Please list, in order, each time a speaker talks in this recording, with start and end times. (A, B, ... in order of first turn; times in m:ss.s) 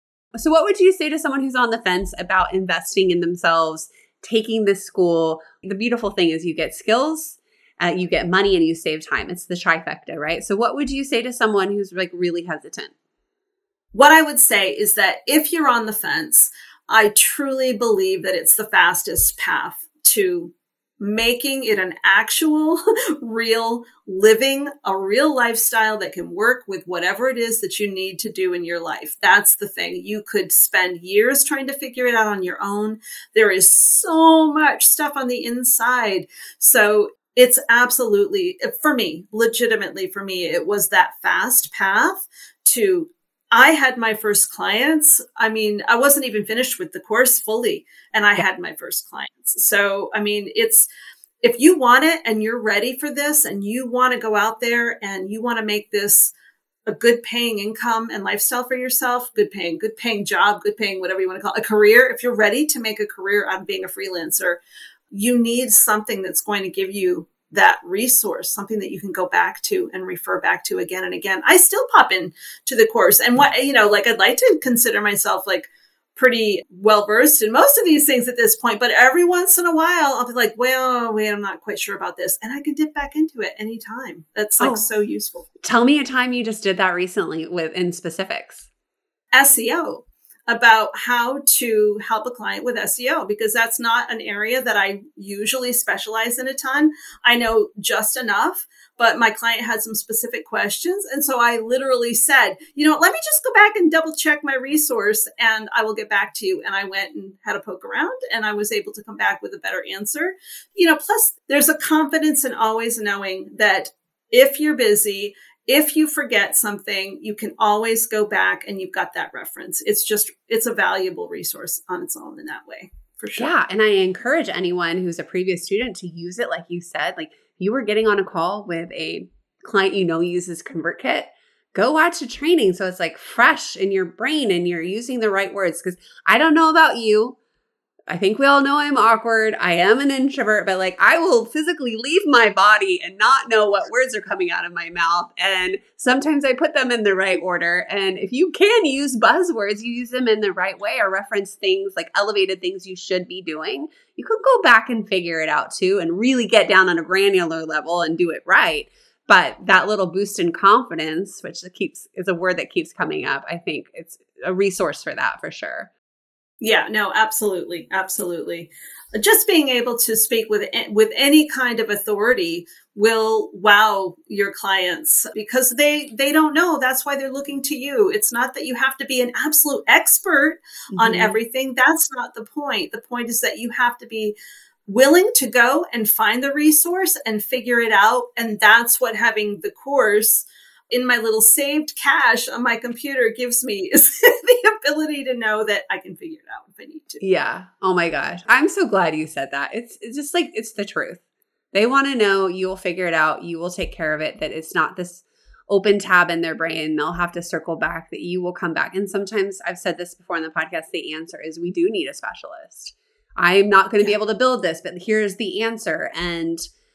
0:00.4-0:12.9 A
0:13.9-0:50.9 B
0:51.4-0:56.3 B
0:56.9-1:04.6 B
1:05.1-1:25.5 B
1:24.6-1:24.8 A
1:25.6-1:28.7 A
1:29.3-2:03.5 B
2:03.4-2:17.4 A
2:18.1-2:45.9 A
2:46.6-3:04.4 B
3:00.9-3:01.4 A
3:04.9-3:17.2 B
3:17.2-3:21.2 A
3:21.7-3:36.6 A